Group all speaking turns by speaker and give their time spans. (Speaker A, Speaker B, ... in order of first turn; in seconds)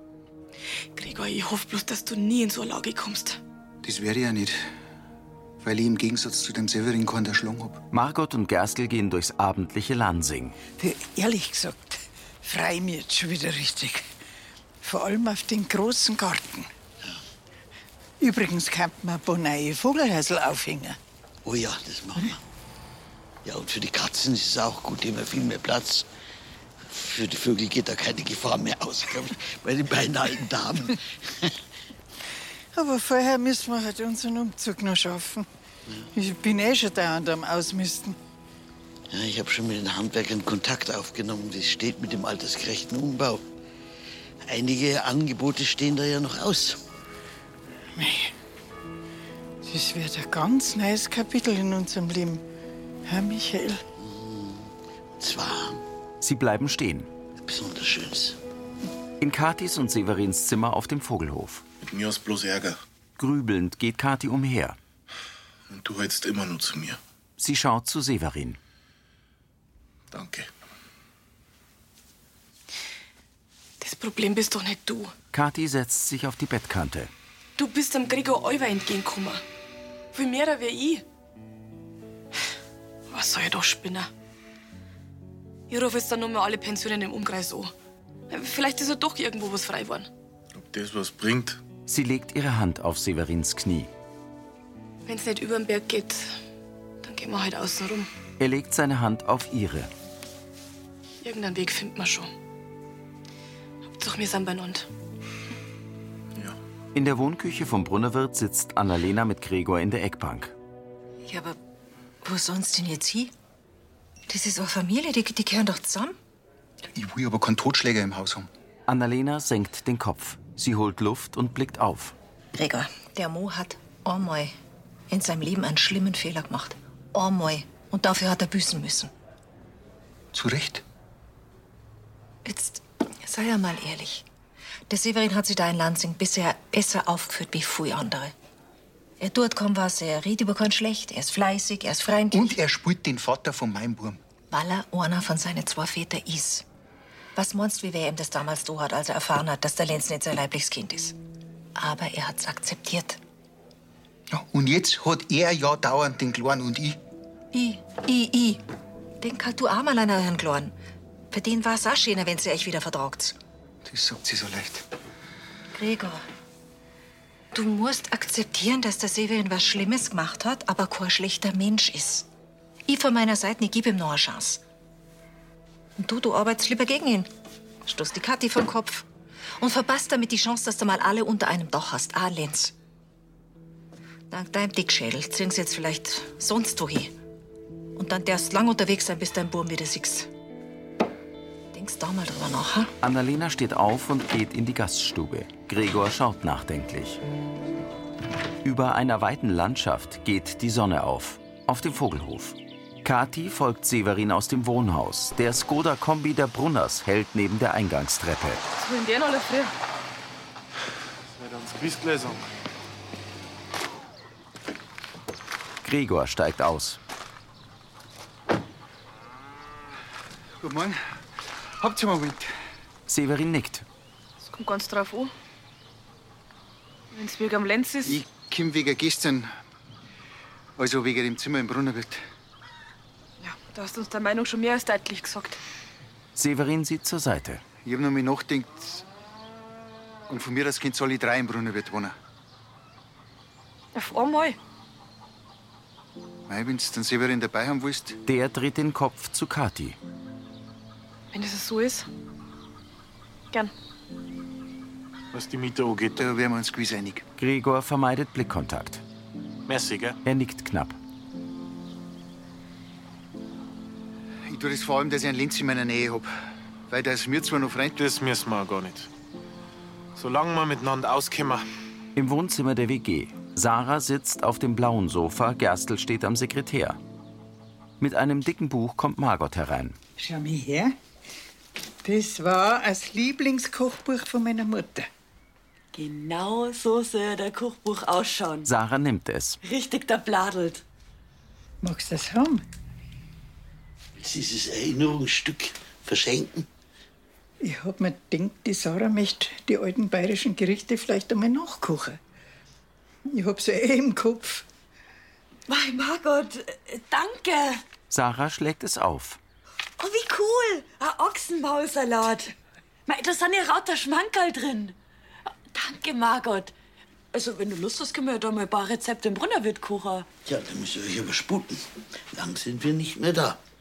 Speaker A: 0.9-3.4, 73.8-75.1, 77.6-79.4, 80.1-81.0, 83.1-84.1, 85.7-87.7, 88.3-90.1, 95.0-96.4, 97.0-98.1, 101.2-102.3, 104.0-104.9, 208.8-209.7, 224.4-225.3, 227.1-228.2, 233.4-235.6, 243.9-244.6, 251.3-252.1
Speaker B: 3.8-4.6, 5.6-7.8, 116.9-118.5, 130.3-130.8, 142.3-144.2, 154.3-157.0, 163.8-164.8, 220.6-221.0, 221.8-222.5, 228.1-229.5, 230.8-232.2, 237.8-239.1, 240.3-242.2, 246.5-248.2, 256.2-257.2, 264.5-266.3, 266.9-268.0
Speaker C: 7.9-10.6, 56.2-57.1, 59.2-61.6, 63.2-64.8, 67.4-68.6, 75.3-77.1, 91.9-93.9, 98.4-99.9, 106.9-110.5, 118.9-122.2, 193.0-197.2, 198.6-208.6, 215.8-217.0, 223.1-223.9, 236.3-237.6, 248.2-250.0, 257.4-259.0, 260.2-261.0, 272.2-277.0, 278.0-280.0, 288.7-289.6, 308.1-309.4
Speaker D: 10.8-14.1, 14.8-16.7, 18.2-21.0, 32.7-35.5, 36.1-38.2, 47.9-48.3, 49.6-52.4, 53.0-53.8, 280.2-280.9, 282.0-285.1, 291.8-292.6, 297.6-302.2, 303.3-304.7
Speaker E: 21.4-22.4, 23.4-26.1, 26.9-31.5, 39.1-43.5, 44.5-46.8, 54.0-55.8, 57.4-58.4, 294.2-296.7, 320.4-323.6
Speaker F: 61.8-62.8, 65.7-67.0, 70.1-70.5, 90.6-91.6, 211.3-212.4, 255.3-256.2, 259.7-260.2, 268.0-269.1, 270.1-271.6
Speaker G: 111.2-111.6, 112.2-113.3, 114.3-116.2, 122.5-124.5, 125.1-129.1, 132.4-134.2, 134.9-138.3, 139.2-142.5, 144.5-146.6, 147.3-151.1, 151.8-153.2, 157.5-158.6, 159.2-160.7, 161.3-163.4, 165.7-166.2, 167.5-172.3, 172.9-174.6, 176.0-177.3, 177.8-179.1, 179.6-182.7, 184.3-187.1, 187.9-190.3, 191.7-192.9
Speaker H: 285.9-288.7, 289.6-290.8, 305.7-307.8, 310.0-312.5, 313.1-314.9, 315.7-316.7, 317.3-320.3